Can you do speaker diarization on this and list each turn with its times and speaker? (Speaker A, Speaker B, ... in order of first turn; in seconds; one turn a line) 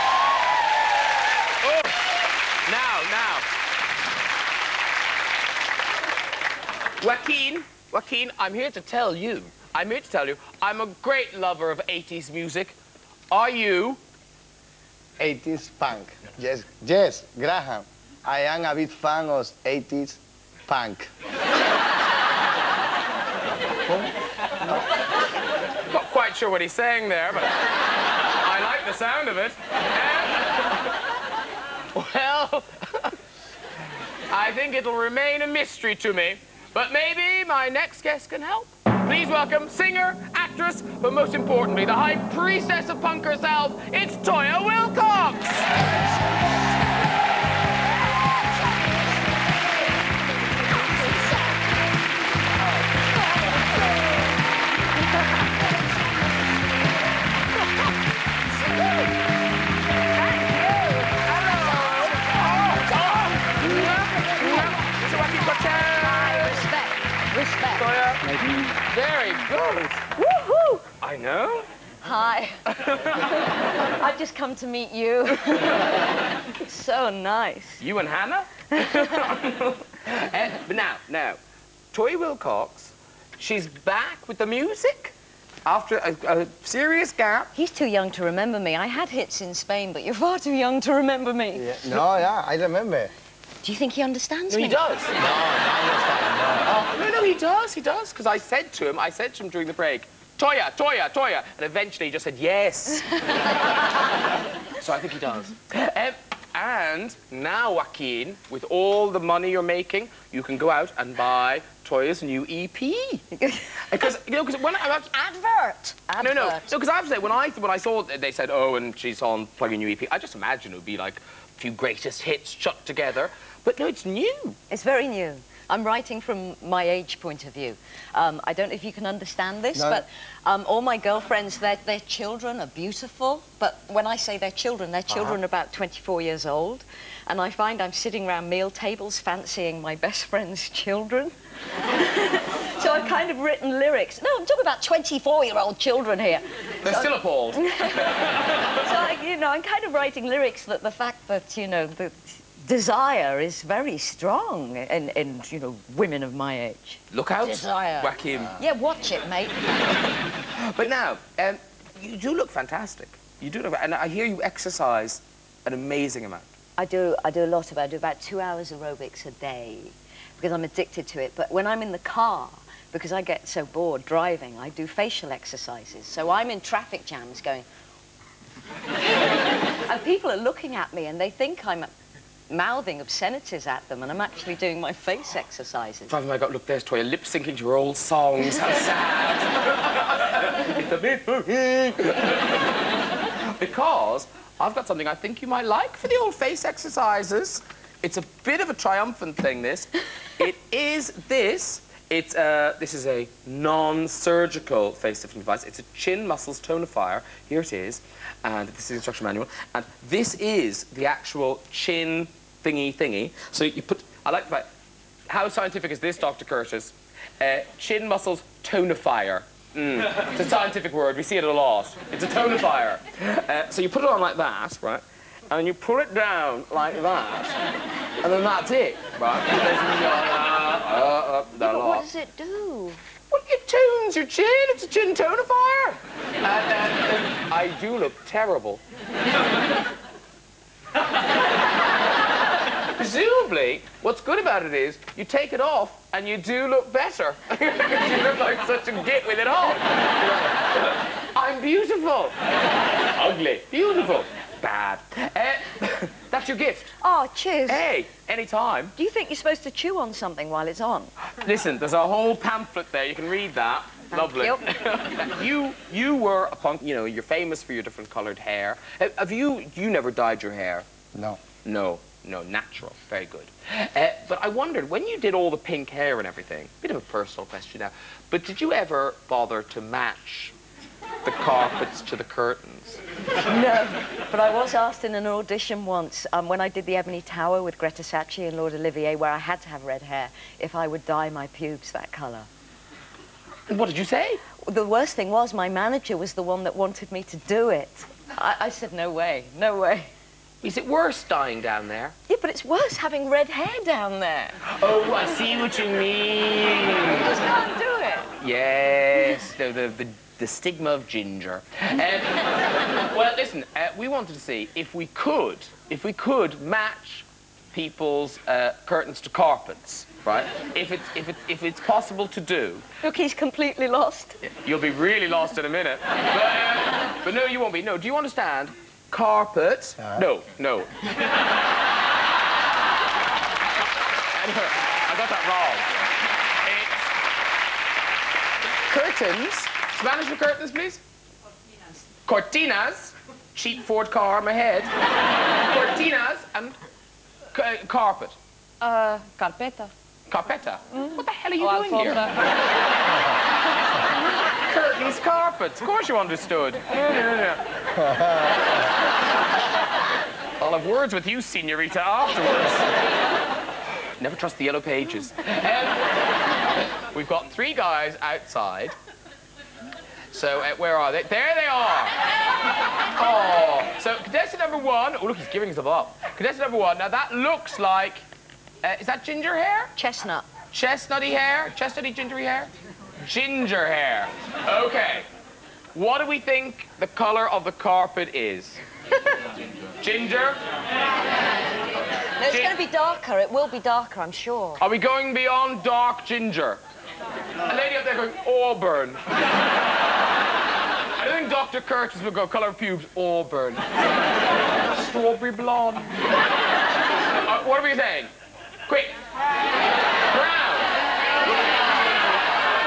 Speaker A: 1.6-2.0
Speaker A: 2.6-3.5
Speaker A: 7.0-12.8
Speaker A: 13.3-14.0
Speaker B: 15.2-21.1
Speaker A: 25.9-27.6
Speaker A: 28.4-30.5
Speaker A: 31.9-33.1
Speaker A: 34.3-45.7
Speaker A: 60.2-66.7
Speaker C: 63.5-64.8
Speaker C: 65.6-67.9
Speaker A: 67.8-68.3
Speaker A: 68.8-70.0
Speaker C: 70.1-70.8
Speaker A: 71.0-71.7
Speaker C: 72.0-72.6
Speaker A: 72.7-73.4
Speaker C: 73.4-76.0
Speaker C: 76.6-77.8
Speaker A: 77.8-81.4
Speaker C: 78.7-79.3
Speaker A: 81.9-85.1
Speaker A: 85.7-87.5
Speaker C: 87.5-91.7
Speaker B: 91.5-93.1
Speaker C: 93.6-94.8
Speaker A: 94.5-95.3
Speaker B: 95.2-96.7
Speaker A: 96.6-103.2
Speaker A: 104.7-113.2
Speaker C: 113.3-113.8
Speaker A: 113.9-115.2
Speaker C: 115.1-116.7
Speaker A: 116.2-124.6
Speaker C: 124.7-159.6
Speaker B: 129.7-130.0
Speaker A: 146.8-148.7
Speaker A: 157.1-158.6
Speaker A: 160.4-166.5
Speaker C: 166.8-177.7
Speaker C: 179.8-181.9
Speaker C: 182.5-186.2
Speaker A: 186.1-192.4
Speaker A: 193.4-214.7
Speaker A: 215.3-227.6
Speaker A: 228.2-232.1
Speaker C: 231.6-233.0
Speaker A: 233.3-238.8
Speaker A: 242.9-250.6
Speaker A: 251.3-252.3
Speaker A: 253.1-256.9
Speaker C: 257.0-257.8
Speaker A: 257.7-258.9
Speaker C: 259.0-261.1
Speaker A: 261.4-270.9
Speaker C: 264.1-264.6
Speaker B: 271.1-271.4
Speaker A: 271.6-280.5
Speaker A: 281.2-283.0
Speaker C: 283.4-292.5
Speaker A: 293.7-294.4
Speaker C: 294.6-300.1
Speaker A: 300.6-302.1
Speaker C: 302.3-304.6
Speaker A: 304.7-307.3
Speaker C: 307.1-308.3
Speaker A: 308.4-312.4
Speaker A: 312.9-322.8
Speaker C: 323.0-324.4
Speaker A: 324.4-330.9
Speaker A: 334.3-335.9
Speaker A: 336.6-337.1
Speaker A: 338.9-341.0
Speaker A: 342.2-344.9
Speaker A: 345.6-346.8
Speaker A: 347.5-348.4
Speaker C: 348.8-349.9
Speaker A: 350.3-352.3
Speaker C: 351.6-352.3
Speaker A: 354.6-357.6
Speaker A: 360.6-362.9
Speaker A: 364.2-366.0
Speaker A: 367.1-368.9
Speaker A: 370.3-372.2
Speaker A: 373.1-378.2
Speaker A: 378.8-379.9
Speaker C: 379.9-380.5
Speaker A: 380.7-382.7
Speaker A: 383.2-385.3
Speaker A: 385.9-388.8
Speaker A: 390.0-390.6
Speaker C: 392.4-394.8
Speaker A: 392.5-392.8
Speaker A: 394.8-396.8
Speaker A: 397.6-399.2
Speaker A: 401.1-403.9
Speaker A: 404.9-406.1
Speaker A: 407.4-408.3
Speaker A: 408.9-409.2
Speaker A: 410.3-411.0